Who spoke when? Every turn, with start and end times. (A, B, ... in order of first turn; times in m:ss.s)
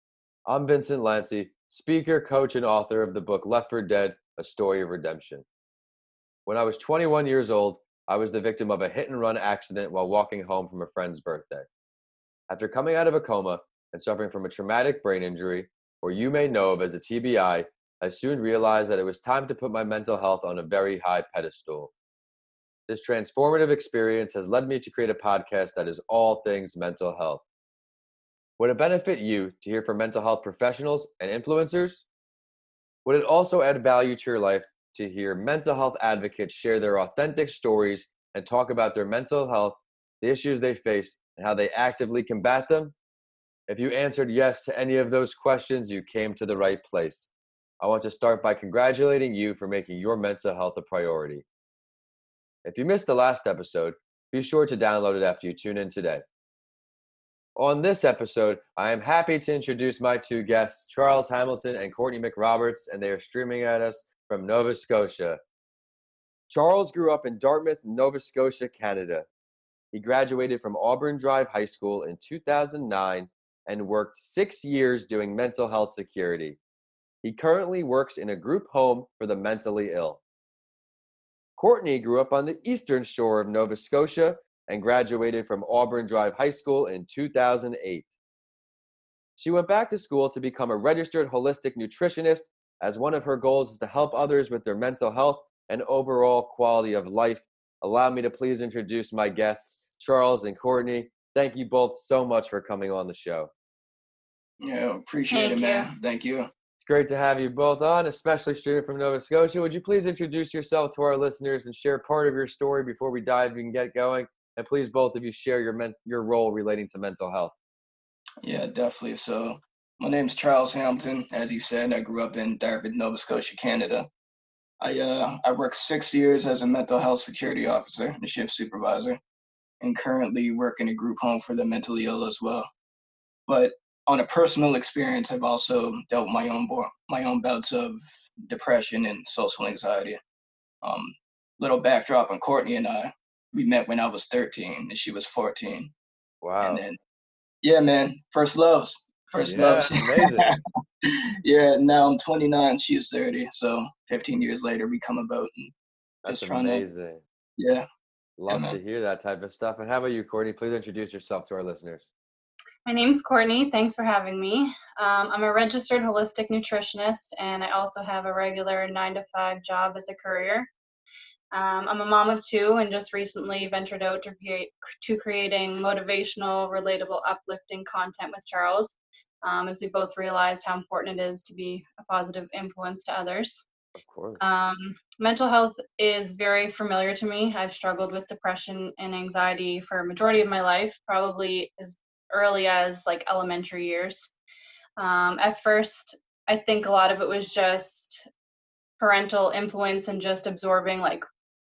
0:00.5-0:05.4 A
0:06.4-0:11.7 A
0:12.5-0:21.9 A
0:22.9-0:27.4 A
0:28.6-0:32.0 A
0:33.0-0:42.9 A
0:43.7-0:47.3 A
0:47.8-0:51.4 A
0:52.6-0:56.2 A
0:57.6-1:05.4 A
1:06.5-1:09.2 A
1:09.9-1:16.6 A
1:17.2-1:20.2 A
1:21.6-1:28.1 A
1:29.4-1:43.5 A
1:44.6-1:46.5 B
1:45.3-1:45.9 C
1:46.8-1:57.5 A
1:58.4-2:04.1 B
2:04.8-2:09.2 B
2:09.8-2:12.7 B
2:13.5-2:20.2 B
2:20.8-2:25.9 B
2:26.4-2:26.8 A
2:26.6-2:27.0 B
2:27.6-2:35.7 B
2:29.4-2:30.5 A
2:36.2-2:37.2 A
2:36.2-2:36.8 B
2:37.6-2:37.8 B
2:38.4-2:42.1 A
2:38.5-2:38.8 B
2:42.8-2:50.7 C
2:51.5-2:58.9 C
2:59.4-3:03.6 C
3:04.0-3:04.4 A
3:04.4-3:14.3 C
3:15.0-3:18.3 C
3:19.0-3:21.2 C